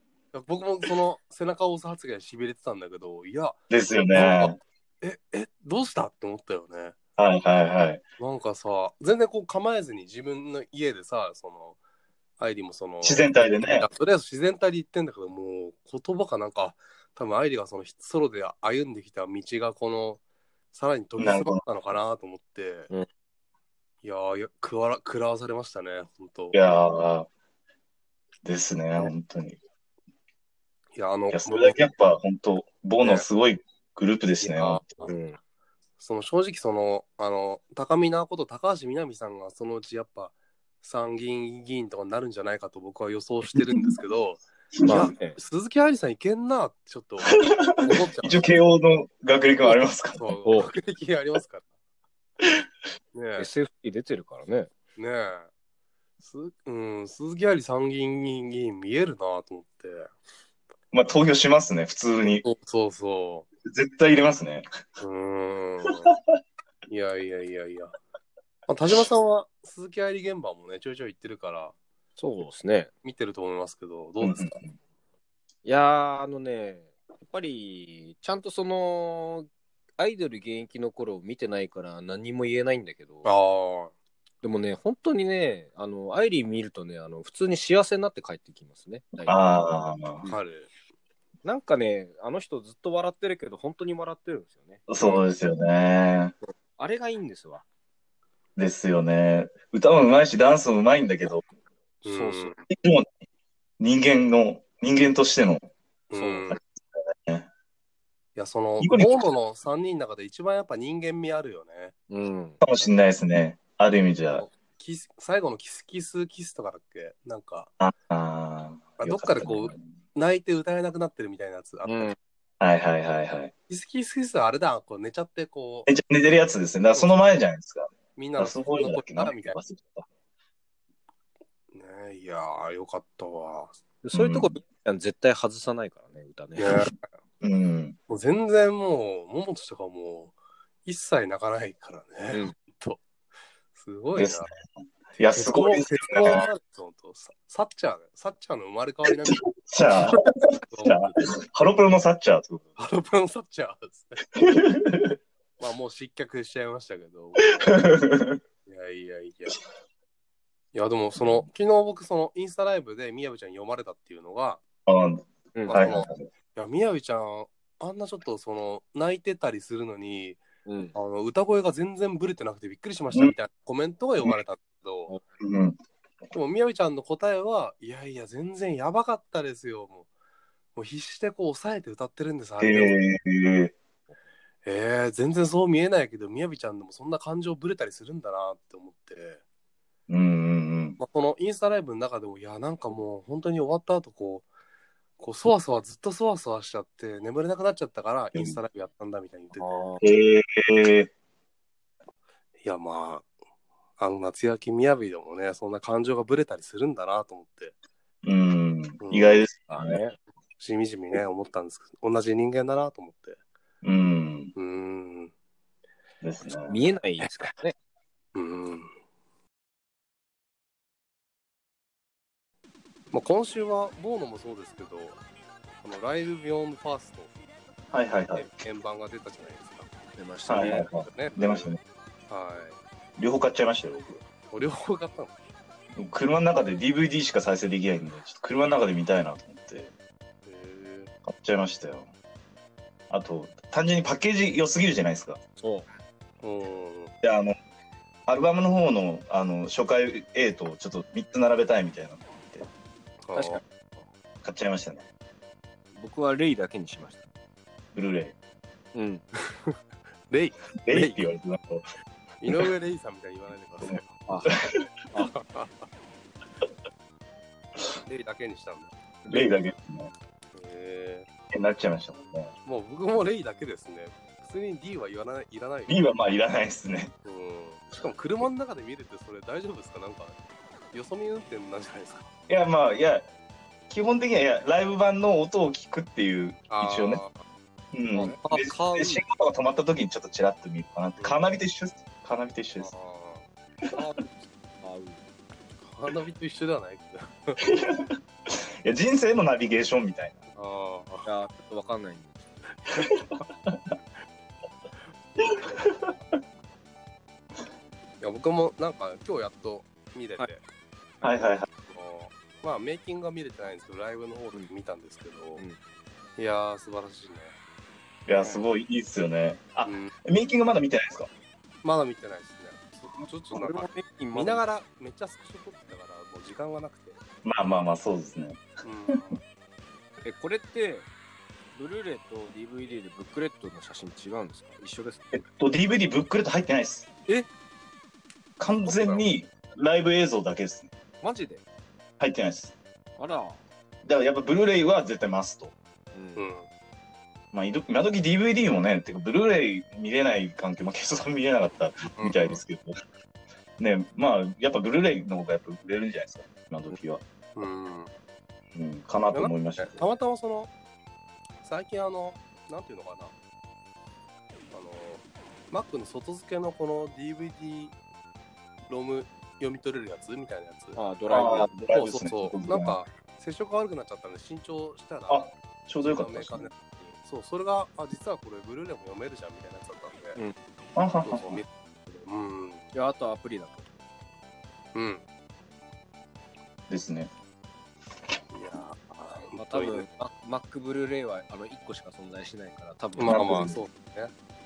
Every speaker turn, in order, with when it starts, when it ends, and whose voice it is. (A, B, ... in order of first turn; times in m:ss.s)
0:00.3-0:03.6 A
0:03.7-0:04.6 B
0:04.1-0:06.9 A
0:07.2-0:08.0 B
0:08.2-0:11.8 A
0:12.4-0:20.2 A
0:13.0-0:13.9 B
0:20.7-0:22.9 A
0:21.2-0:21.6 B
0:24.0-0:26.6 A
0:26.5-0:27.3 B
0:28.4-0:29.6 B
0:31.0-0:31.8 A
0:31.3-0:35.0 B
0:34.4-0:35.1 A
0:35.0-0:35.4 C
0:36.0-0:48.5 A
0:43.5-0:43.9 B
0:44.8-0:45.1 B
0:44.8-0:45.4 C
0:47.4-0:50.4 B
0:50.2-0:51.7 A
0:53.1-0:53.5 A
0:53.4-0:54.7 C
0:55.0-0:55.5 A
0:56.2-1:00.1 A
1:00.9-1:02.4 B
1:02.2-1:03.5 A
1:03.6-1:04.6 B
1:05.0-1:06.1 A
1:05.9-1:06.1 B
1:06.9-1:08.0 A
1:08.7-1:11.8 A
1:12.2-1:12.9 C
1:13.0-1:14.6 A
1:14.2-1:14.7 B
1:15.6-1:23.3 C
1:23.2-1:23.9 A
1:24.4-1:29.4 C
1:29.2-1:30.2 B
1:30.2-1:30.7 A
1:31.4-1:34.9 C
1:34.9-1:36.3 B
1:36.8-1:37.6 C
1:38.6-1:41.4 B
1:42.0-1:42.6 A
1:42.0-1:42.5 C
1:42.7-1:43.1 B
1:43.8-1:45.6 B
1:46.1-1:46.6 A
1:46.1-1:46.5 C
1:46.5-1:47.5 B
1:48.4-1:51.9 A
1:48.8-1:49.3 B
1:52.1-1:52.6 C
1:52.6-1:54.4 B
1:54.8-1:57.7 A
1:57.8-1:59.8 B
1:59.0-2:02.1 A
2:01.8-2:02.2 C
2:02.6-2:03.5 B
2:03.7-2:05.9 A
2:05.9-2:10.1 B
2:08.2-2:09.6 A
2:11.7-2:13.7 A
2:14.0-2:16.8 C
2:14.1-2:14.6 B
2:16.6-2:16.9 A
2:17.4-2:18.0 B
2:18.1-2:20.3 A
2:20.8-2:23.0 A
2:23.7-2:24.5 A
2:24.2-2:24.5 B
2:25.2-2:26.5 B
2:25.3-2:29.5 A
2:29.1-2:32.8 B
2:30.0-2:31.3 A
2:32.8-2:34.2 A
2:34.4-2:35.2 B
2:35.6-2:37.9 A
2:37.6-2:38.4 B
2:38.6-2:39.6 A
2:40.7-2:44.6 A
2:41.2-2:41.4 B
2:44.9-2:46.3 B
2:45.5-2:45.8 C
2:45.7-2:50.4 A
2:50.6-2:51.0 C
2:50.9-2:55.1 A
2:55.4-2:55.8 B
2:56.3-3:00.1 A
3:00.7-3:03.0 A
3:02.6-3:03.7 B
3:04.6-3:09.4 A
3:10.1-3:11.0 B
3:11.0-3:14.5 A
3:15.2-3:19.8 A
3:18.3-3:18.6 B
3:19.6-3:20.1 C
3:20.0-3:21.1 B
3:22.6-3:23.3 A
3:24.0-3:27.7 A
3:28.2-3:30.0 B
3:29.0-3:29.5 A
3:29.7-3:30.2 C
3:30.6-3:33.4 A
3:33.8-3:34.5 B
3:34.6-3:35.3 A
3:36.2-3:36.7 B
3:36.7-3:37.7 C
3:38.3-3:38.9 A
3:43.1-3:45.2 A
3:45.8-3:47.4 A
3:47.9-3:48.5 B
3:48.3-3:49.9 A
3:50.1-3:50.9 C
3:50.5-3:51.8 B
3:50.6-3:51.7 A
3:52.3-3:52.8 A
3:53.2-3:54.2 B
3:54.5-3:55.3 A
3:56.0-3:59.9 B
4:00.4-4:01.1 A
4:01.2-4:02.1 B
4:03.1-4:05.4 B
4:05.6-4:05.9 C
4:06.4-4:07.1 A
4:07.2-4:07.5 B
4:08.3-4:12.7 B
4:13.2-4:13.6 A
4:13.3-4:13.6 C
4:14.4-4:15.0 B
4:16.0-4:17.2 C
4:17.9-4:18.3 B
4:18.9-4:19.2 C
4:19.5-4:19.8 A
4:20.3-4:21.2 A
4:20.8-4:21.8 B
4:22.4-4:24.2 A
4:23.8-4:24.8 B
4:24.2-4:24.5 C
4:25.2-4:25.7 A
4:28.0-4:28.9 A
4:29.3-4:30.1 B
4:30.5-4:31.3 A
4:31.5-4:32.5 B
4:32.6-4:36.0 A
4:35.9-4:37.1 B
4:37.2-4:40.4 A
4:40.9-4:42.3 A
4:42.5-4:43.3 B
4:43.9-4:47.2 B
4:46.7-4:47.4 A
4:47.9-4:52.9 B
4:48.1-4:49.2 C
4:51.2-4:51.5 A
4:52.8-4:53.4 A
4:53.9-4:55.2 C
4:55.8-4:57.6 A
4:57.6-5:00.4 B
5:00.5-5:01.2 A
5:01.2-5:02.7 C
5:02.9-5:03.8 B
5:05.4-5:06.4 B
5:08.2-5:10.6 A
5:11.2-5:15.6 A
5:11.2-5:11.7 B
5:16.4-5:17.6 A
5:18.3-5:21.3 B
5:19.8-5:20.1 A
5:21.8-5:27.2 A
5:23.5-5:24.6 C
5:27.4-5:29.2 B
5:28.8-5:29.4 A
5:30.2-5:31.1 C
5:31.7-5:35.3 C
5:35.3-5:37.1 B
5:38.6-5:40.9 B
5:38.9-5:39.2 A
5:41.2-5:41.6 C
5:42.2-5:42.7 B
5:43.2-5:43.6 C
5:44.0-5:45.7 B
5:46.1-5:46.5 C
5:46.4-5:46.7 A
5:47.5-5:53.0 B
5:52.2-5:52.6 A
5:53.8-5:57.2 B
5:57.6-5:58.1 A
5:58.7-6:00.0 B
5:59.3-6:00.7 A
6:01.6-6:03.3 A
6:04.7-6:08.0 A
6:08.9-6:11.0 A
6:10.9-6:11.9 C
6:11.3-6:13.0 B
6:11.9-6:15.5 A
6:15.3-6:16.7 B
6:16.0-6:20.4 A
6:20.9-6:21.6 B
6:21.2-6:22.8 A
6:22.9-6:23.9 C
6:24.9-6:25.2 A
6:26.9-6:27.3 B
6:28.5-6:30.1 A
6:29.6-6:33.8 C
6:33.2-6:34.3 A
6:33.2-6:33.8 B